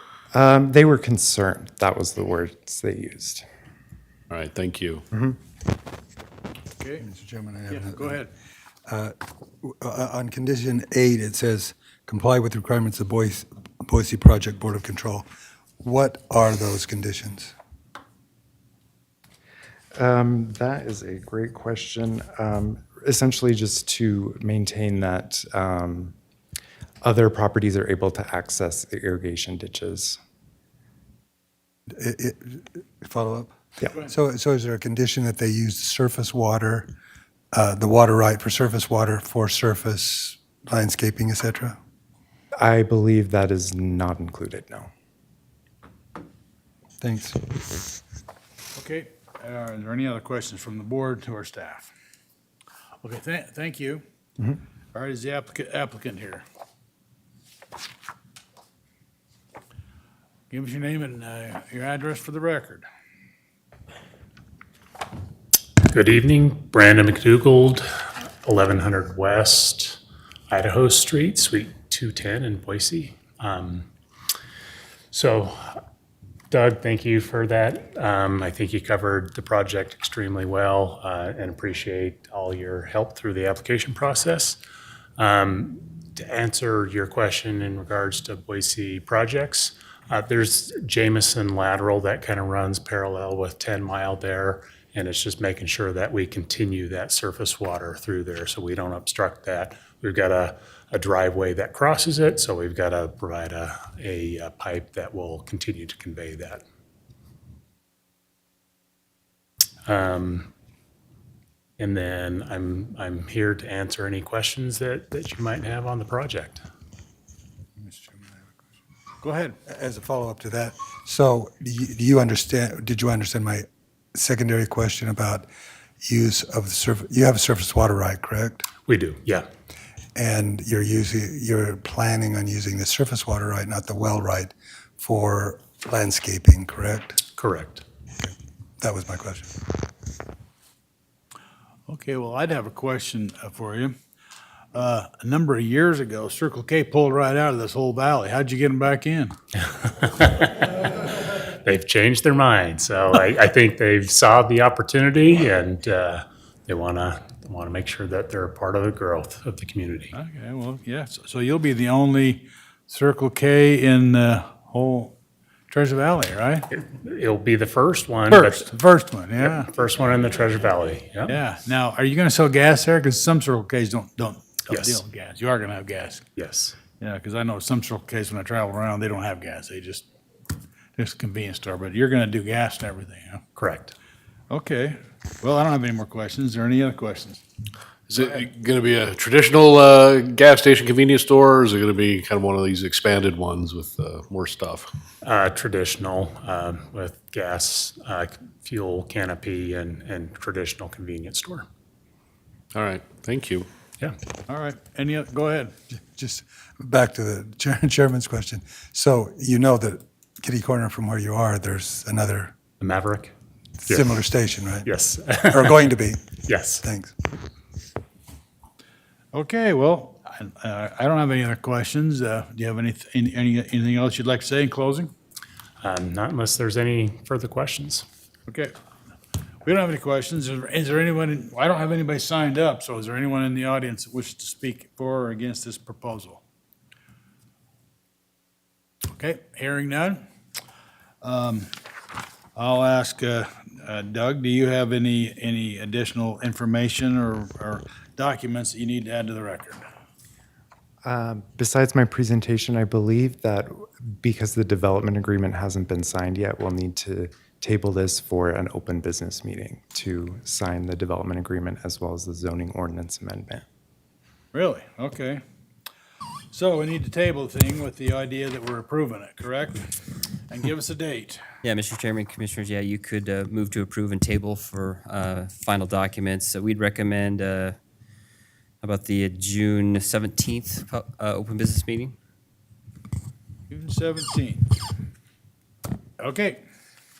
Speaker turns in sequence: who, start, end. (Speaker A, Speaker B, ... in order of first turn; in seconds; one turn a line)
Speaker A: 0.3-3.4
Speaker B: 4.3-5.0
Speaker C: 6.8-7.0
Speaker D: 7.0-8.2
Speaker C: 7.7-8.3
Speaker D: 8.9-15.2
Speaker D: 15.8-17.5
Speaker A: 19.9-26.1
Speaker A: 27.0-30.2
Speaker D: 32.0-36.9
Speaker D: 37.5-41.8
Speaker A: 42.6-44.9
Speaker D: 47.0-47.4
Speaker C: 48.7-51.9
Speaker C: 53.0-54.0
Speaker C: 54.9-56.4
Speaker C: 60.5-62.9
Speaker E: 65.8-73.9
Speaker E: 75.1-75.8
Speaker E: 76.5-84.6
Speaker E: 85.2-106.6
Speaker E: 109.8-110.5
Speaker E: 111.8-116.6
Speaker C: 117.8-118.4
Speaker C: 119.2-119.6
Speaker D: 119.7-125.5
Speaker D: 126.0-128.7
Speaker E: 128.8-129.5
Speaker D: 130.1-137.2
Speaker E: 137.3-137.8
Speaker D: 138.8-139.5
Speaker C: 141.9-144.0
Speaker C: 144.7-149.3
Speaker E: 149.7-160.1
Speaker C: 160.1-165.1
Speaker C: 165.7-166.7
Speaker E: 166.7-168.7
Speaker C: 168.3-169.7
Speaker E: 169.4-171.4
Speaker C: 171.3-176.2
Speaker E: 174.7-175.0
Speaker E: 176.3-176.8
Speaker C: 177.0-180.1
Speaker C: 180.9-183.4
Speaker E: 183.6-183.9
Speaker C: 184.5-187.4
Speaker B: 188.1-194.9
Speaker E: 195.2-201.7
Speaker B: 202.7-203.7
Speaker C: 204.5-205.7
Speaker D: 206.1-212.5
Speaker E: 212.8-213.3
Speaker D: 213.8-214.9
Speaker E: 213.9-214.1
Speaker E: 214.8-215.9
Speaker D: 215.5-216.3
Speaker E: 216.4-216.8
Speaker D: 216.8-217.1
Speaker C: 219.3-225.1
Speaker E: 225.8-228.1
Speaker C: 228.5-228.7
Speaker C: 229.6-236.4
Speaker C: 239.1-240.2
Speaker C: 241.2-241.7
Speaker C: 242.5-249.8
Speaker A: 251.0-263.6
Speaker C: 264.5-265.4
Speaker C: 266.5-271.4
Speaker F: 271.6-277.8
Speaker F: 278.8-282.1
Speaker C: 283.7-284.7
Speaker C: 286.2-286.6